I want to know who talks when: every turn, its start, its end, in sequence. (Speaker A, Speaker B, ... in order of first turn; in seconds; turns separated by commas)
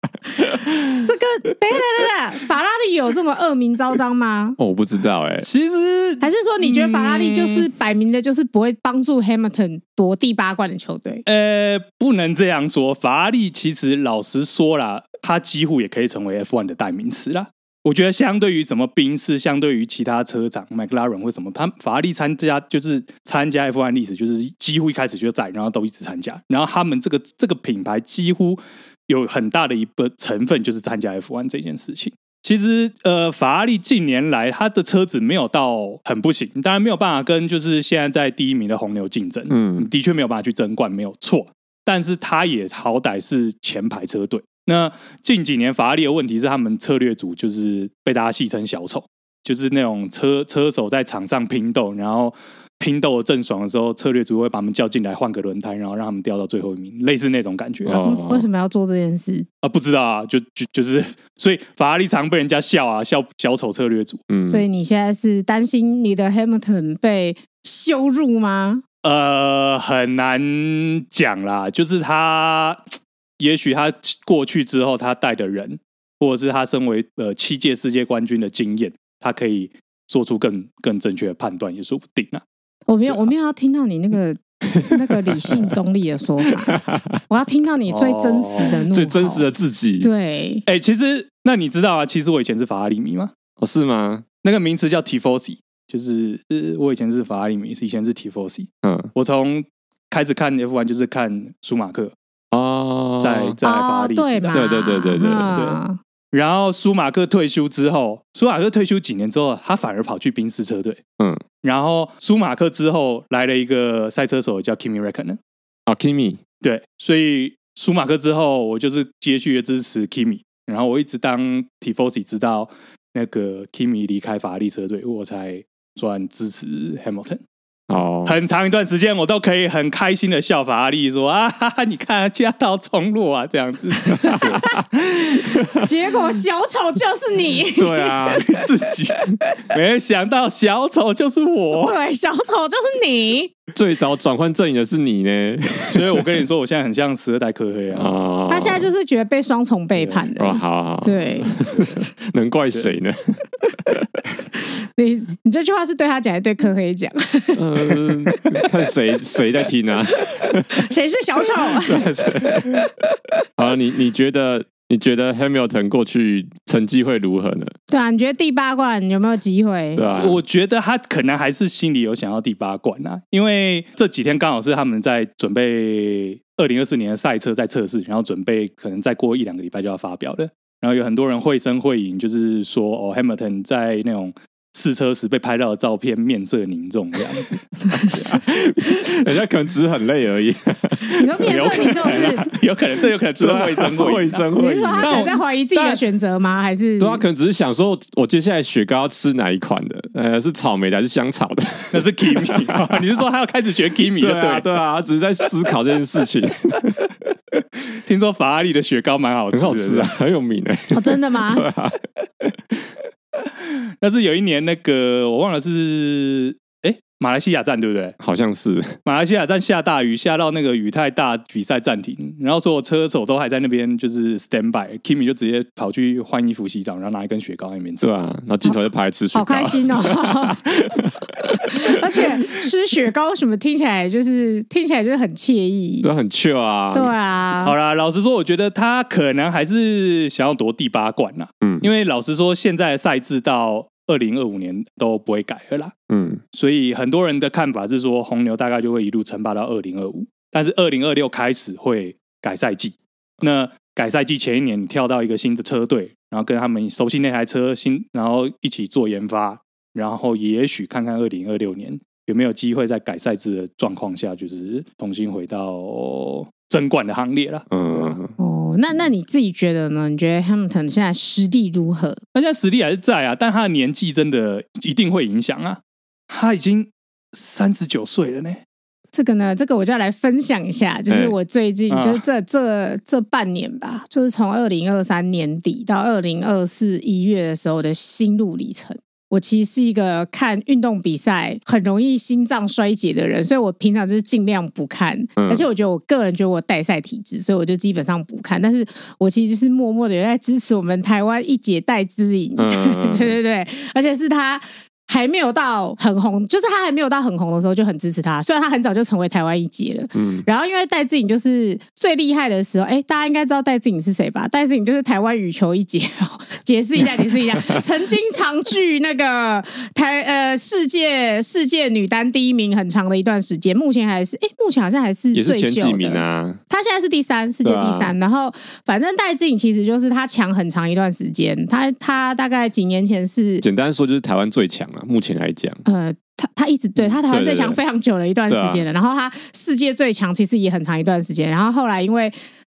Speaker A: 0.9-4.6, Speaker B: 4.6-5.5, Speaker C: 5.4-7.7, Speaker A: 6.2-11.2, Speaker C: 11.2-58.0, Speaker B: 39.5-39.9, Speaker B: 57.8-58.5, Speaker A: 58.0-59.5, Speaker C: 59.6-64.2, Speaker B: 64.3-64.6, Speaker A: 64.5-68.8, Speaker C: 69.0-72.8, Speaker C: 73.4-82.4, Speaker A: 82.9-86.8, Speaker B: 84.8-85.7, Speaker B: 86.7-87.2, Speaker A: 87.3-89.5, Speaker C: 87.9-88.8, Speaker B: 88.7-90.1, Speaker A: 90.0-90.6, Speaker C: 90.7-93.3, Speaker B: 93.6-94.2, Speaker C: 94.4-102.1, Speaker B: 98.8-99.1, Speaker B: 102.5-103.6, Speaker C: 103.2-104.6, Speaker A: 103.6-106.0, Speaker B: 104.5-105.5, Speaker C: 105.5-105.8, Speaker C: 106.3-111.0, Speaker C: 111.6-115.4, Speaker B: 115.9-116.4, Speaker C: 116.6-127.4, Speaker B: 127.9-128.4, Speaker C: 128.2-135.2, Speaker A: 134.1-134.8, Speaker B: 134.3-134.8, Speaker A: 135.3-138.4, Speaker B: 135.6-135.9, Speaker B: 137.8-138.5, Speaker C: 138.4-142.0, Speaker A: 141.8-143.5, Speaker B: 143.7-146.3, Speaker C: 145.9-148.2, Speaker B: 147.9-148.9, Speaker A: 148.5-151.6, Speaker B: 150.3-154.2, Speaker A: 154.9-158.6, Speaker B: 157.5-160.8, Speaker A: 160.3-163.3, Speaker B: 161.8-162.9, Speaker B: 163.6-167.7, Speaker A: 167.9-170.0, Speaker B: 169.9-170.4, Speaker C: 170.1-187.6, Speaker B: 187.9-192.5, Speaker A: 187.9-188.2, Speaker A: 191.1-192.5, Speaker C: 191.4-196.0, Speaker B: 193.4-195.3, Speaker A: 194.5-197.2, Speaker B: 197.0-202.8, Speaker C: 201.9-204.7, Speaker B: 204.2-207.0, Speaker C: 207.9-210.1, Speaker B: 209.5-212.8, Speaker A: 210.9-211.7, Speaker C: 214.0-218.2, Speaker B: 218.2-219.0, Speaker C: 219.0-228.1, Speaker B: 228.0-232.6, Speaker A: 229.3-230.6, Speaker A: 231.3-236.1, Speaker B: 236.0-237.1, Speaker A: 236.9-237.7, Speaker C: 237.6-245.9, Speaker B: 241.6-241.9, Speaker B: 246.1-246.4, Speaker C: 246.5-267.7, Speaker B: 267.7-268.3, Speaker A: 267.9-272.2, Speaker C: 272.3-278.6, Speaker A: 279.1-333.6, Speaker B: 281.1-281.3, Speaker C: 281.9-282.2, Speaker B: 295.4-295.6, Speaker B: 302.6-303.4, Speaker B: 310.1-310.4, Speaker B: 317.5-317.8, Speaker B: 325.3-326.6, Speaker B: 327.6-328.1, Speaker B: 333.6-335.8, Speaker A: 335.8-342.4, Speaker B: 337.2-337.8, Speaker B: 338.5-338.8